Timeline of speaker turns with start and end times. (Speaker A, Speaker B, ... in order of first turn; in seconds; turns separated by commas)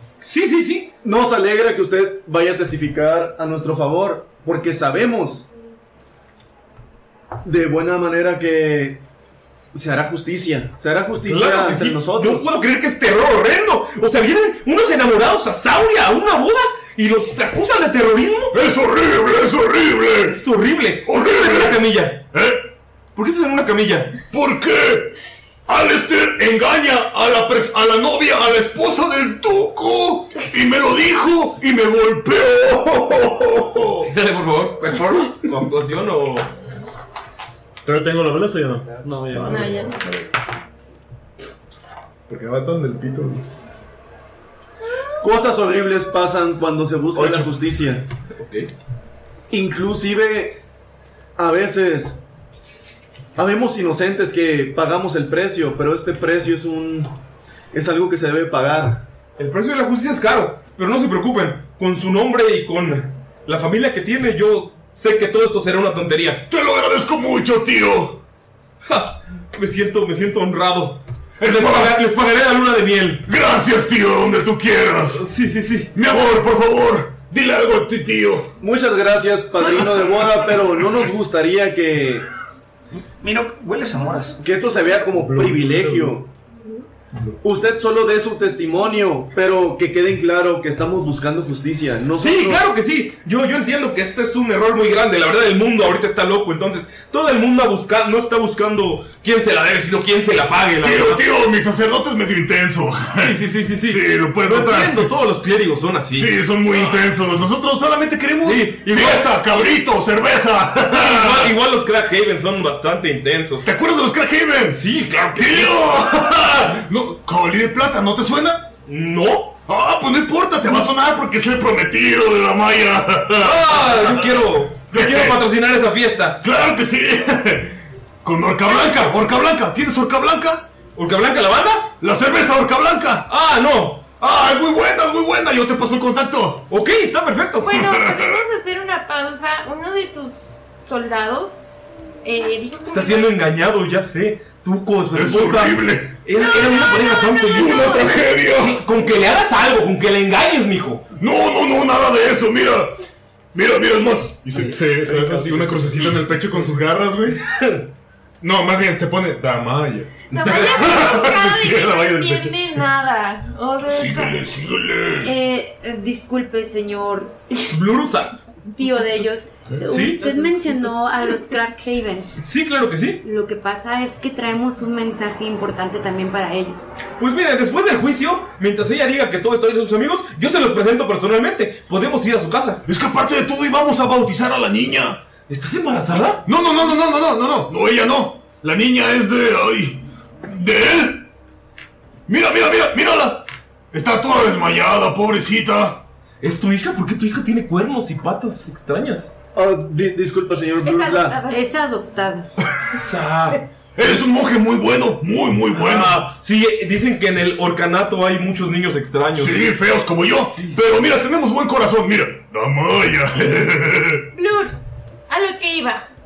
Speaker A: 0.2-0.9, Speaker B: 1.0-5.5, Speaker B: 7.4-9.0, Speaker B: 9.7-12.5, Speaker A: 11.2-18.6, Speaker C: 18.5-20.4, Speaker A: 20.3-22.2, Speaker C: 21.1-22.6, Speaker A: 23.1-24.1, Speaker C: 24.3-25.1, Speaker C: 25.7-34.1, Speaker A: 34.0-36.5, Speaker D: 37.9-38.9, Speaker E: 39.0-39.8, Speaker F: 39.4-40.0, Speaker D: 42.3-43.4, Speaker B: 45.2-48.0, Speaker D: 47.1-47.4, Speaker A: 48.4-48.7, Speaker B: 49.5-50.6, Speaker B: 51.4-52.2, Speaker B: 53.4-57.1, Speaker B: 57.7-59.0, Speaker A: 59.4-66.4, Speaker C: 66.5-68.2, Speaker A: 68.8-73.2, Speaker C: 71.4-72.0, Speaker C: 73.3-75.2, Speaker A: 75.1-75.9, Speaker C: 75.9-78.5, Speaker B: 78.6-82.3, Speaker E: 83.2-84.4, Speaker B: 84.4-86.3, Speaker D: 85.2-86.2, Speaker B: 87.4-92.6, Speaker A: 92.2-101.2, Speaker C: 100.8-105.1, Speaker A: 103.2-107.0, Speaker C: 106.1-111.5, Speaker A: 108.4-109.4, Speaker A: 110.9-113.7, Speaker C: 113.6-114.8, Speaker A: 114.7-116.0, Speaker C: 115.3-118.7, Speaker A: 118.9-119.6, Speaker C: 119.7-125.4, Speaker A: 123.4-126.4, Speaker C: 126.4-127.7, Speaker C: 128.2-130.7, Speaker F: 128.7-129.1, Speaker A: 130.9-131.9, Speaker C: 132.0-133.3, Speaker A: 133.3-134.0, Speaker C: 134.2-136.6, Speaker A: 136.7-137.9, Speaker F: 137.6-141.6, Speaker C: 137.9-138.4, Speaker F: 142.2-143.3, Speaker A: 142.9-151.1, Speaker C: 145.1-146.2, Speaker F: 146.3-148.2, Speaker C: 147.6-148.8, Speaker C: 151.2-152.9, Speaker C: 153.5-155.2, Speaker D: 154.5-157.4, Speaker A: 154.9-155.9, Speaker A: 157.6-157.8, Speaker D: 158.4-162.5, Speaker F: 160.3-164.4, Speaker A: 160.4-161.2, Speaker C: 163.9-165.3, Speaker G: 165.2-167.5, Speaker A: 167.6-168.4, Speaker G: 168.7-172.4, Speaker A: 169.9-170.3, Speaker A: 172.4-173.2, Speaker G: 173.2-176.9, Speaker A: 177.2-182.8, Speaker C: 182.9-185.2, Speaker A: 185.5-186.4, Speaker C: 186.4-191.3, Speaker C: 192.3-196.0, Speaker A: 196.4-199.3, Speaker B: 199.6-201.4, Speaker F: 200.8-201.7, Speaker G: 201.5-202.5, Speaker A: 202.9-204.2, Speaker C: 204.0-206.3, Speaker A: 205.7-209.7, Speaker C: 209.3-214.2, Speaker A: 210.4-210.8, Speaker F: 214.3-214.8, Speaker F: 215.3-216.1